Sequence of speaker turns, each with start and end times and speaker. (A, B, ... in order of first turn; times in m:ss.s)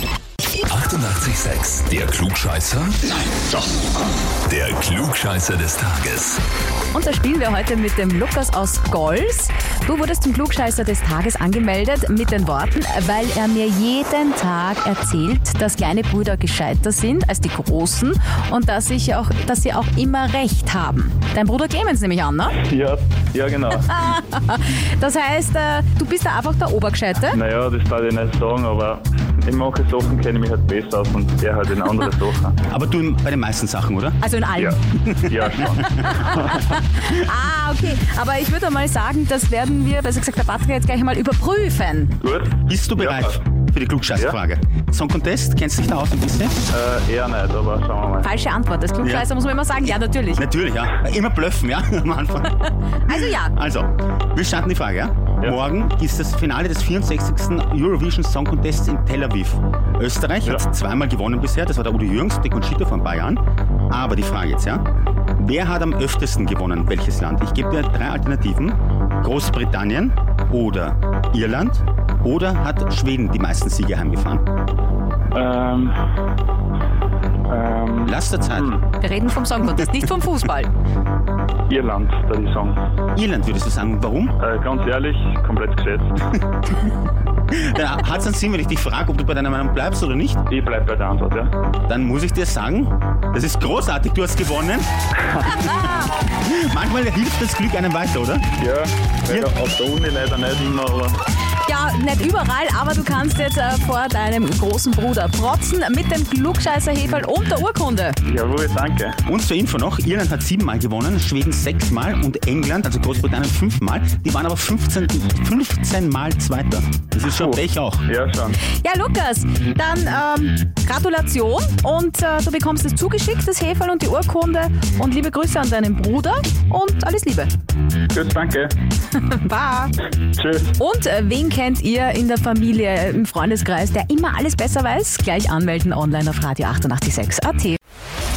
0:00.6-0:03.2 A
0:04.4-0:06.4 A
0:06.9-0:22.6 B
0:22.5-0:24.0 C
0:23.9-0:27.4 B
0:27.3-0:32.6 C
0:32.7-0:34.2 D
0:34.2-0:34.8 B
0:34.6-0:36.7 C
0:34.9-0:36.2 D
0:35.8-0:42.1 B
0:42.2-0:43.4 C
0:42.6-0:46.6 D
0:46.7-0:48.3 C
0:48.2-0:50.4 B
0:49.0-0:49.3 D
0:49.8-1:04.8 D
0:53.1-0:53.5 B
1:05.4-1:14.4 D
1:15.3-1:16.0 C
1:17.5-1:18.8 C
1:18.0-1:18.8 D
1:19.0-1:20.7 B
1:21.7-1:22.8 C
1:23.1-1:24.3 D
1:24.4-1:26.2 C
1:27.5-1:30.4 D
1:30.5-1:31.5 C
1:31.9-1:34.9 D
1:35.2-1:35.5 C
1:35.4-1:38.5 D
1:35.5-1:36.1 B
1:38.6-1:41.2 C
1:41.6-1:48.2 B
1:48.2-1:49.2 C
1:49.2-1:58.0 D
1:57.3-1:58.6 C
1:58.8-2:07.5 B
2:08.1-2:08.8 C
2:09.2-2:09.9 B
2:10.4-2:10.8 C
2:10.8-2:17.8 B